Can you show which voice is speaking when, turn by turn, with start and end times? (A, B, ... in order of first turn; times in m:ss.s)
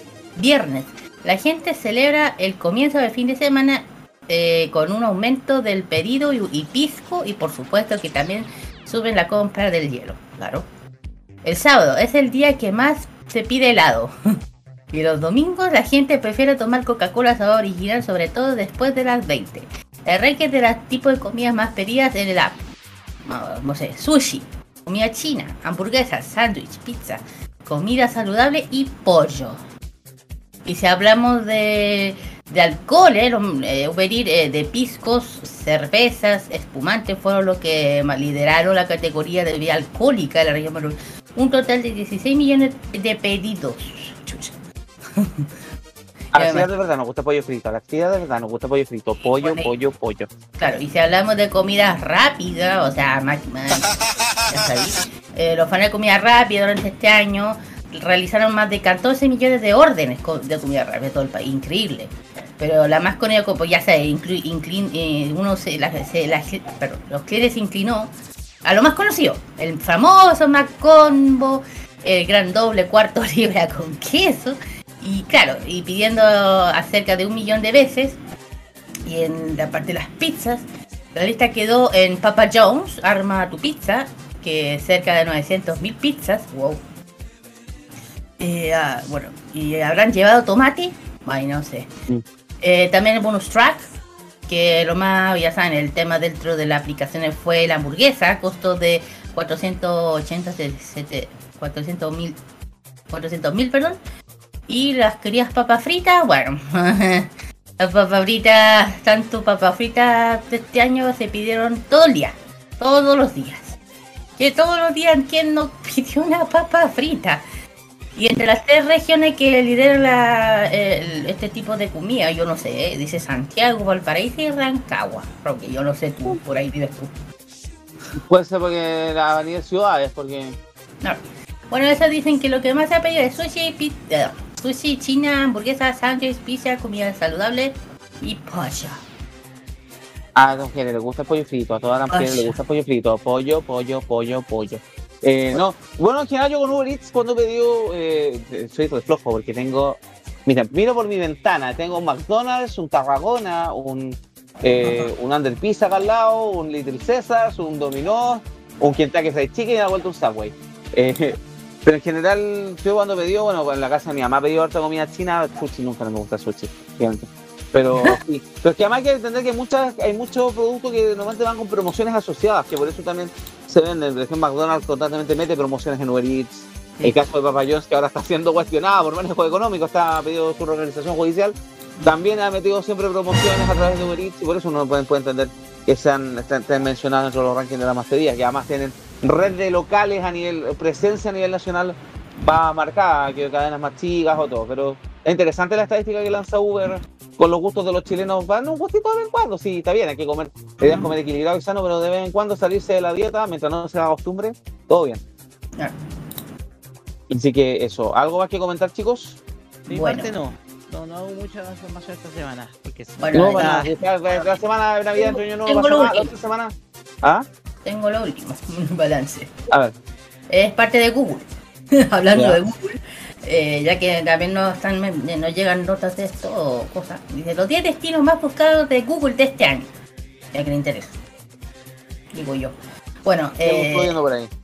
0:00.4-0:10.6 A
0:11.4-0:14.1 A
0:14.9-0:22.6 A
0:23.2-0:29.6 A
0:30.6-0:44.5 A
0:45.1-0:45.5 A
0:46.3-0:46.7 A
0:46.3-0:50.3 B
0:49.3-0:49.7 A
0:50.6-0:53.9 A
0:54.5-1:08.1 A
1:08.6-1:18.2 A
1:19.1-1:26.8 A
1:28.4-1:31.9 A
1:32.6-1:33.9 A
1:34.5-1:42.4 A
1:43.1-1:44.0 A
1:44.7-1:53.8 A
1:54.4-1:57.4 A
1:58.2-2:07.1 A
2:08.1-2:10.6 B
2:11.0-2:19.0 A
2:20.4-3:01.6 B
2:22.1-2:22.6 A
2:34.8-2:35.1 A
3:02.1-3:25.2 B
3:20.8-3:21.1 A
3:27.3-3:29.4 B
3:29.9-3:30.3 A
3:29.9-3:33.9 C
3:33.2-3:34.5 A
3:33.4-3:37.4 B
3:35.2-3:36.3 A
3:37.8-3:39.5 A
3:40.5-3:49.9 A
3:42.3-3:42.6 B
3:50.5-3:51.2 A
3:52.3-3:54.1 A
3:53.6-3:54.5 B